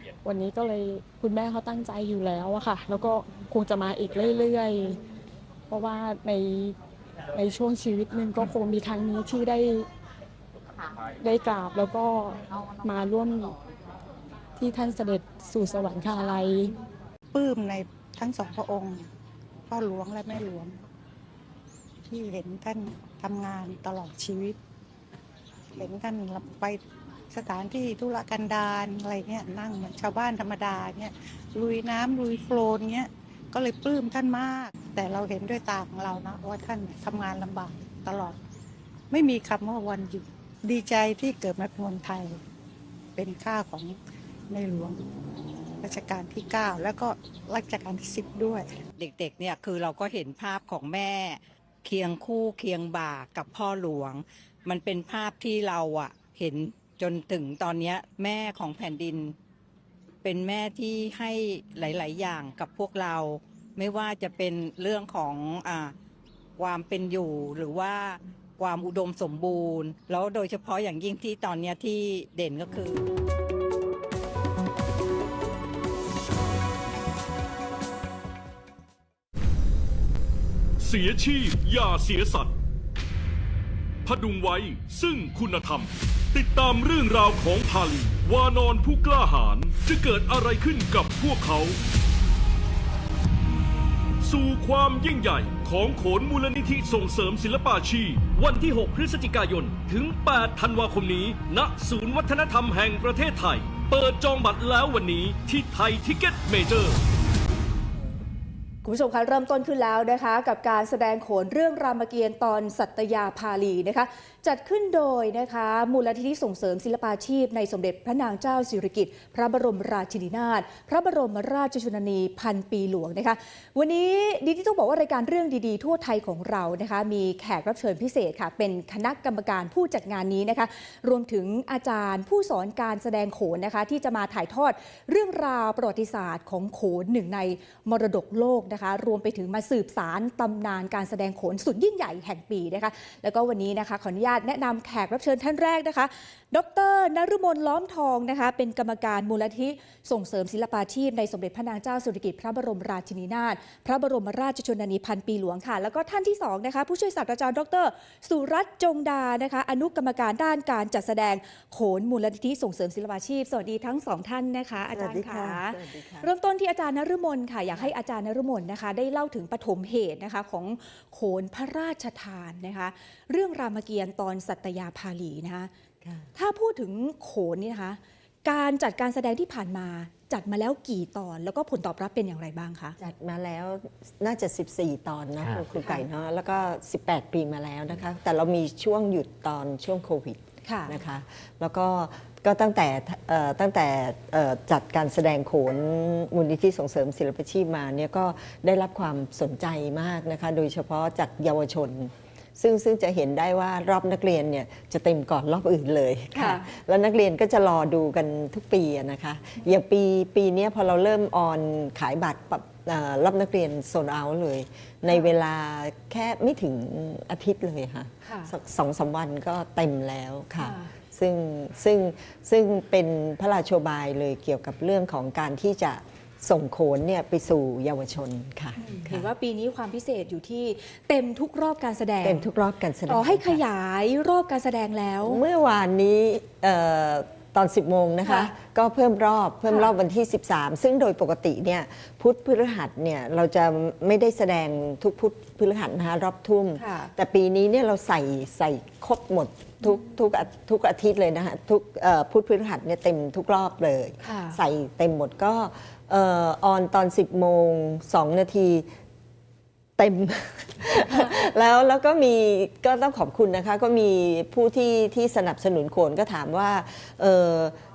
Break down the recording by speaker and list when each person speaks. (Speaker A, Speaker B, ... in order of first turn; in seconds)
Speaker A: 0.2-5.0, 5.7-6.8, 7.3-9.9, 11.2-13.6, 14.6-16.7
Speaker B: 17.3-19.1, 19.7-20.8, 22.1-24.6, 25.8-26.8, 27.3-38.4, 39.1-42.4, 43.2-44.0, 44.5-45.0, 45.8-48.7
Speaker C: 49.0-59.4, 60.2-65.9, 66.6-73.0
Speaker D: 80.8-82.6, 84.0-91.8, 94.2-107.0
Speaker E: 108.8-175.7, 176.3-183.0, 190.7-190.9, 206.3-206.7, 218.2-218.5, 220.6-220.9, 228.8-232.5, 233.1-235.4, 238.3-238.5, 246.8-247.1, 254.2-254.6
Speaker F: 164.8-166.3, 183.0-229.3, 232.2-233.6, 235.3-258.9, 260.0-267.8